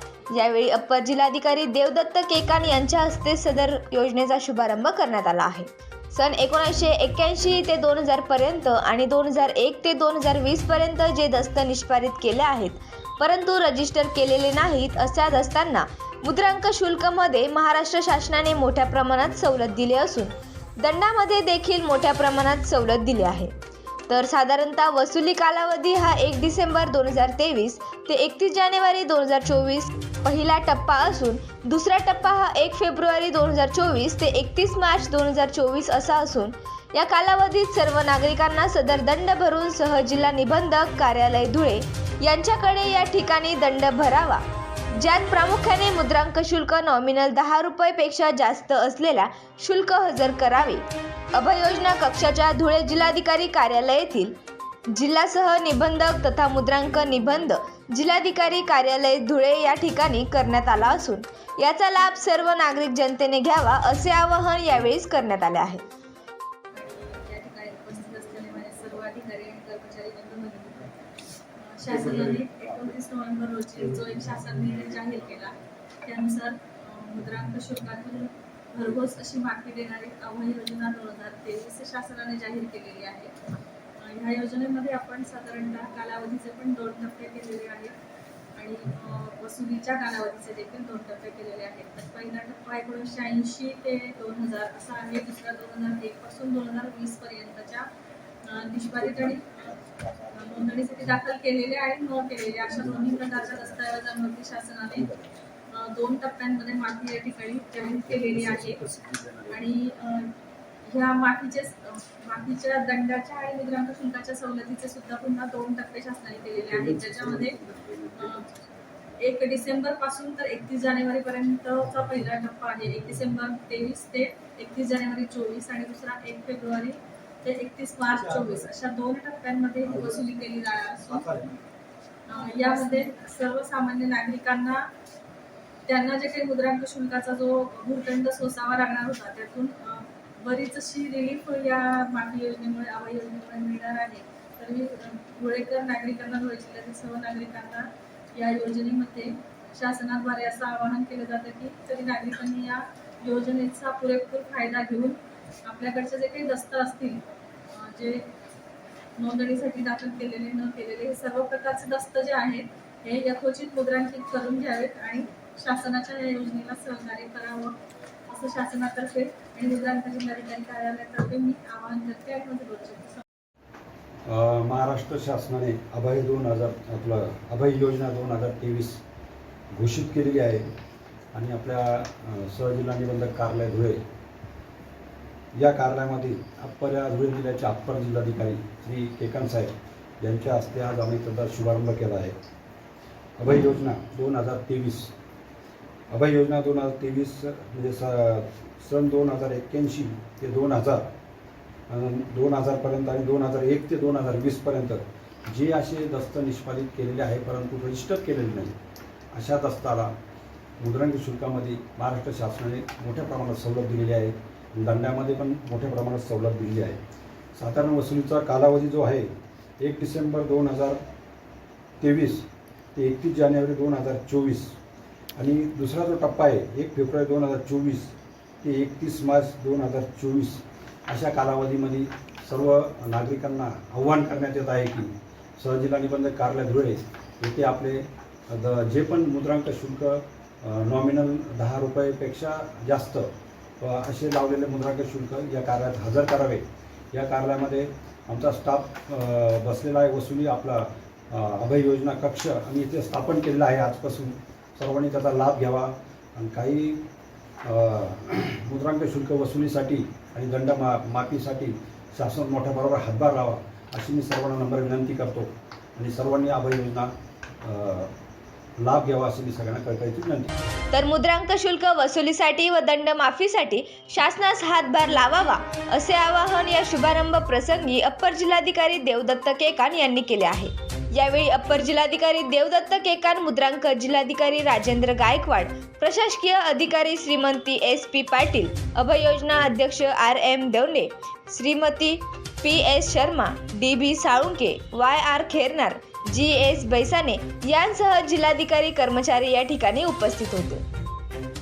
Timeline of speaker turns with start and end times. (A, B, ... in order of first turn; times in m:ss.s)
0:00.3-0:23.5 A
0:24.1-0:54.4 A
0:54.9-1:05.8 A
1:06.7-1:10.9 B
1:11.6-1:23.3 B
1:11.9-1:12.6 C
1:24.0-1:28.0 B
1:28.6-1:37.9 B
1:38.4-1:39.7 B
1:39.0-1:41.1 C
1:40.3-1:45.1 B
1:42.6-1:44.0 C
1:44.9-1:45.4 C
1:45.7-1:48.8 B
1:48.0-1:49.6 C
1:49.5-1:50.3 B
1:50.9-1:57.6 B
1:56.5-1:59.2 C
1:58.2-1:58.4 B
1:59.2-2:11.3 B
2:08.1-2:08.7 C
2:09.8-2:11.6 C
2:12.3-2:14.9 B
2:15.8-2:38.3 B
2:39.2-2:47.8 B
2:48.3-2:53.2 B
2:54.2-2:59.0 C
2:59.7-3:00.7 C
3:01.3-3:04.0 C
3:05.5-3:12.4 C
3:13.4-3:15.1 C
3:16.1-3:21.1 C
3:21.9-3:28.7 C
3:29.3-3:30.1 C
3:30.8-3:37.0 C
3:37.6-3:41.0 C
3:42.0-3:44.8 C
3:45.4-4:17.0 C
4:17.6-4:28.1 C
4:28.8-4:30.5 C
4:30.9-5:00.8 A